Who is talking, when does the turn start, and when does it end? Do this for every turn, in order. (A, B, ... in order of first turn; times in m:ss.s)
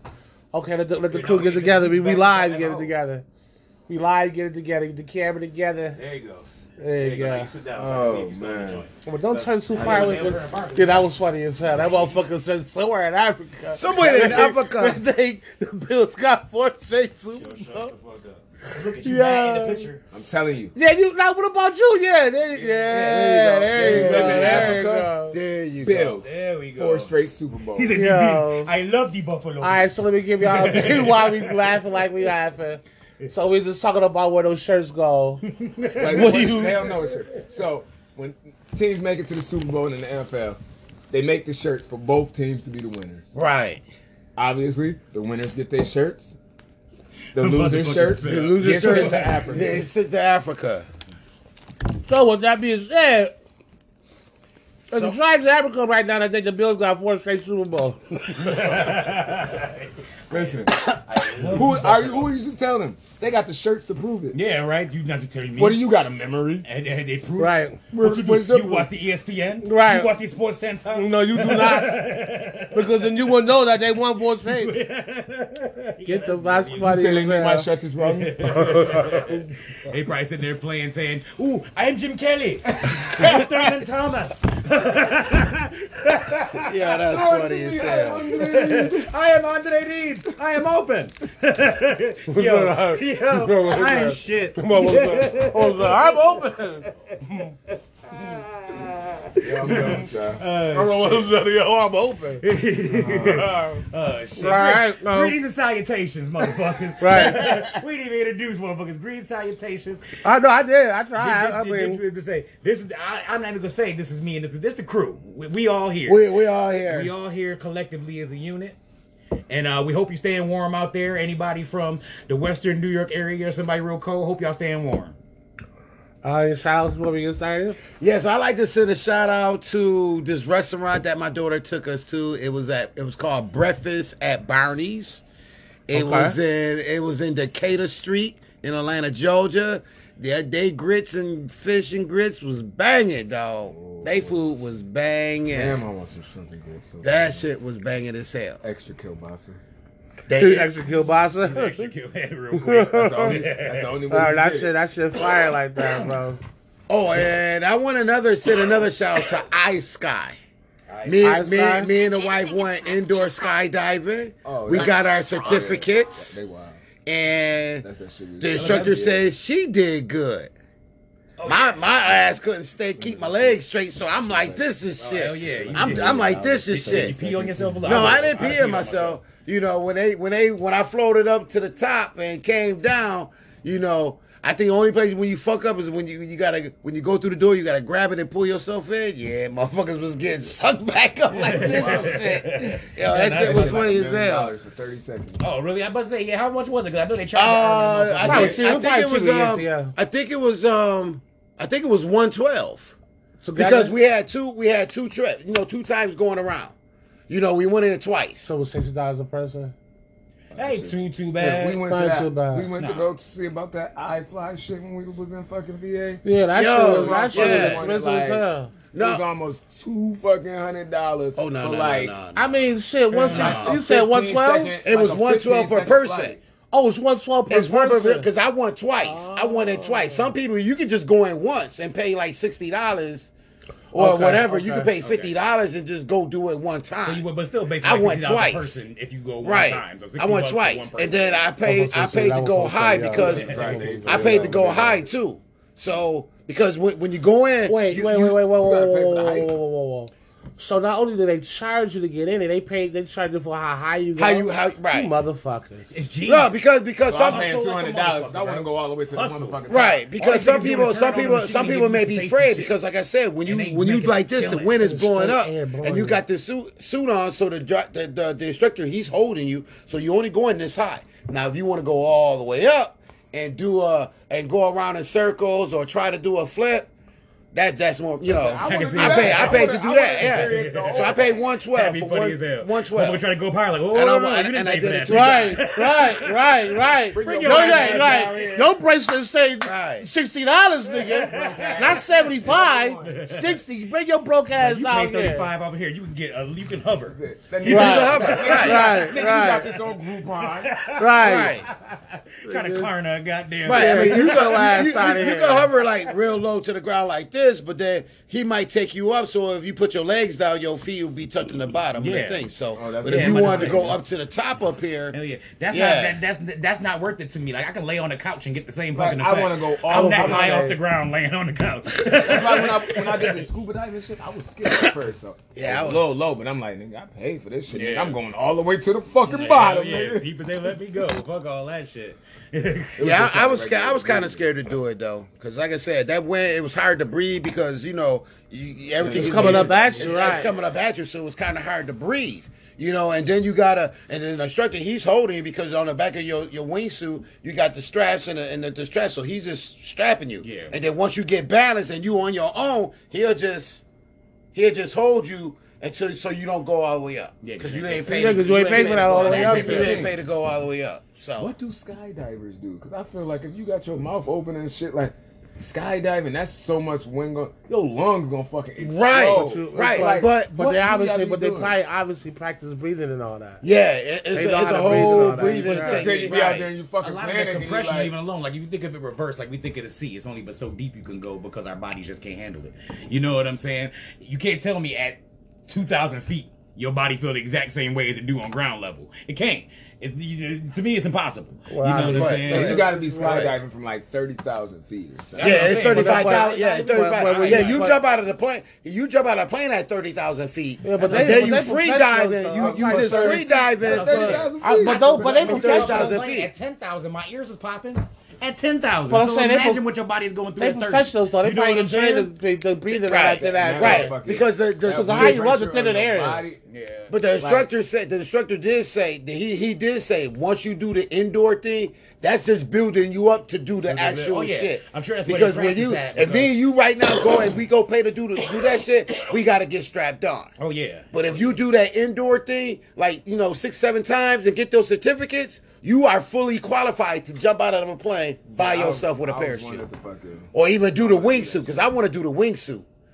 0:00.5-0:03.2 A
0:01.1-0:02.9 B
0:03.9-0:06.0 A
0:06.0-0:06.5 B
0:06.8-0:07.5 A
0:07.0-0:11.1 B
0:07.7-0:08.8 C
0:09.0-0:17.9 A
0:09.7-0:10.4 C
0:11.7-0:12.2 B
0:13.7-0:15.0 D
0:17.3-0:20.0 B
0:18.7-0:19.9 A
0:20.1-0:20.7 C
0:20.7-0:25.4 A
0:22.5-0:24.8 B
0:23.2-0:26.2 D
0:23.7-0:25.1 C
0:25.8-0:27.9 C
0:26.2-0:27.1 B
0:27.7-0:32.0 B
0:27.9-0:28.7 A
0:29.6-0:35.4 A
0:35.5-0:36.9 B
0:36.0-0:40.6 C
0:36.0-0:36.9 A
0:41.1-0:43.3 C
0:43.3-0:43.8 D
0:44.4-0:46.3 C
0:47.3-0:49.2 B
0:47.3-0:49.9 C
0:48.2-0:50.9 D
0:52.0-0:53.3 A
0:54.9-0:58.6 A
0:54.9-0:55.2 D
0:58.3-1:02.3 B
1:00.3-1:00.9 C
1:01.4-1:04.3 C
1:04.3-1:05.8 B
1:05.6-1:06.6 C
1:06.6-1:13.4 B
1:07.4-1:07.8 A
1:07.9-1:08.9 C
1:09.6-1:10.1 A
1:10.9-1:12.1 A
1:12.7-1:14.7 A
1:14.4-1:17.0 B
1:16.0-1:17.7 A
1:16.8-1:18.3 C
1:18.0-1:26.7 B
1:18.5-1:19.4 A
1:22.6-1:23.8 C
1:26.6-1:28.2 D
1:27.1-1:29.1 C
1:28.2-1:36.3 B
1:32.3-1:37.5 A
1:37.5-1:41.3 B
1:39.4-1:40.4 C
1:40.7-1:43.8 A
1:42.4-1:50.0 B
1:44.4-1:45.4 A
1:47.0-1:47.5 A
1:50.2-1:52.0 A
1:51.2-1:56.3 B
1:56.0-1:57.1 D
1:56.8-1:58.8 B
1:59.5-2:05.2 B
2:06.2-2:07.8 A
2:08.0-2:15.2 D
2:15.9-2:25.8 D
2:15.9-2:16.4 A
2:23.7-2:24.5 C
2:25.5-2:27.5 C
2:27.0-2:28.6 D
2:28.6-2:29.6 C
2:30.3-2:30.7 D
2:30.3-2:31.9 A
2:31.4-2:34.0 B
2:32.5-2:33.4 A
2:32.9-2:34.7 C
2:34.1-2:36.4 A
2:36.9-2:40.4 D
2:40.9-2:41.7 B
2:41.0-2:46.4 D
2:41.2-2:41.9 A
2:44.4-2:46.8 C
2:47.0-2:47.8 D
2:47.8-2:49.2 C
2:48.4-2:50.5 D
2:48.5-2:49.1 B
2:51.4-2:51.7 B
2:51.4-2:57.1 D
2:53.0-2:54.6 C
2:55.0-2:59.1 B
2:55.2-2:59.2 C
2:57.8-3:14.5 D
3:11.3-3:12.2 C
3:11.3-3:14.1 B
3:13.2-3:15.4 C
3:15.4-3:18.6 B
3:17.3-3:22.9 D
3:18.2-3:19.9 A
3:18.2-3:18.6 C
3:23.4-3:23.9 A
3:23.5-3:26.7 D
3:27.3-3:28.5 D
3:28.4-3:29.7 A
3:30.5-3:31.8 B
3:30.5-3:36.2 C
3:31.9-3:32.7 A
3:32.8-3:33.1 B
3:36.2-3:38.7 A
3:36.5-3:37.9 D
3:36.8-3:42.2 C
3:38.9-3:39.2 D
3:41.4-3:42.6 D
3:42.3-3:44.8 A
3:43.1-3:43.8 B
3:43.2-3:46.4 C
3:43.3-3:43.6 D
3:44.8-3:46.4 D
3:46.7-3:48.3 A
3:47.5-3:53.3 D
3:49.0-3:50.3 A
3:53.9-3:57.2 D
3:53.9-3:54.9 A
3:55.0-3:55.3 B
3:57.0-4:01.5 B
3:57.8-3:58.8 D
3:59.4-4:08.4 D
4:01.6-4:04.8 A
4:03.1-4:05.0 C
4:03.2-4:04.0 B
4:07.6-4:15.9 A
4:08.5-4:09.5 C
4:14.2-4:15.1 D
4:15.9-4:16.5 B
4:16.2-4:17.5 D
4:17.1-4:20.0 C
4:17.1-4:19.6 B
4:19.7-4:36.9 D
4:20.2-4:22.7 B
4:23.4-4:24.8 B
4:24.8-4:26.2 A
4:37.5-4:43.2 D
4:38.4-4:48.8 B
4:38.6-4:39.4 A
4:38.6-4:41.4 C
4:43.9-4:45.6 D
4:45.1-4:55.5 A
4:47.1-4:48.6 C
4:49.6-4:50.1 D
4:50.9-4:53.2 C
4:51.0-4:53.6 B
4:54.6-5:05.1 B
4:57.0-5:00.7 C
4:57.6-4:59.0 D
4:57.6-4:59.7 A
5:01.0-5:01.6 A
5:01.2-5:01.7 D
5:02.4-5:02.9 A
5:03.6-5:15.1 D
5:03.7-5:05.7 A
5:11.9-5:12.5 B
5:12.7-5:14.0 C
5:13.0-5:14.0 B
5:15.1-5:23.5 B
5:15.7-5:16.2 D
5:18.9-5:20.7 C
5:19.9-5:20.8 A
5:22.0-5:30.3 C
5:25.5-5:26.1 D
5:27.7-5:28.2 B
5:29.2-5:33.1 B
5:33.0-5:34.5 C
5:33.0-5:53.8 D
5:39.0-5:40.4 C
5:39.1-5:40.5 A
5:50.4-5:50.8 B
5:54.5-6:01.5 D
5:57.4-6:00.1 B
5:58.1-6:00.0 A
5:58.4-6:00.1 C
6:01.4-6:11.8 C
6:08.8-6:10.6 D
6:09.1-6:13.6 A
6:13.6-6:16.7 D
6:14.3-6:16.1 A
6:14.8-6:18.1 C
6:17.0-6:32.9 B
6:31.7-6:33.5 A
6:31.9-6:33.5 D
6:32.5-6:35.8 C
6:35.3-6:38.0 B
6:35.4-6:44.5 D
6:35.7-6:38.0 A
6:40.8-6:43.4 A
6:40.9-6:41.8 B
6:42.6-6:46.1 C
6:43.3-6:52.3 B
6:44.6-6:46.2 A
6:45.4-6:46.5 D
6:49.1-6:49.8 A
6:50.6-6:54.1 A
6:53.0-6:55.4 D
6:53.4-6:56.6 C
6:54.9-6:56.5 A
6:56.7-6:57.1 B
6:57.1-7:10.5 D
6:57.4-6:57.6 C
7:03.9-7:06.5 B
7:10.6-7:11.1 B
7:11.1-7:19.8 D
7:18.5-7:21.9 C
7:20.5-7:22.8 D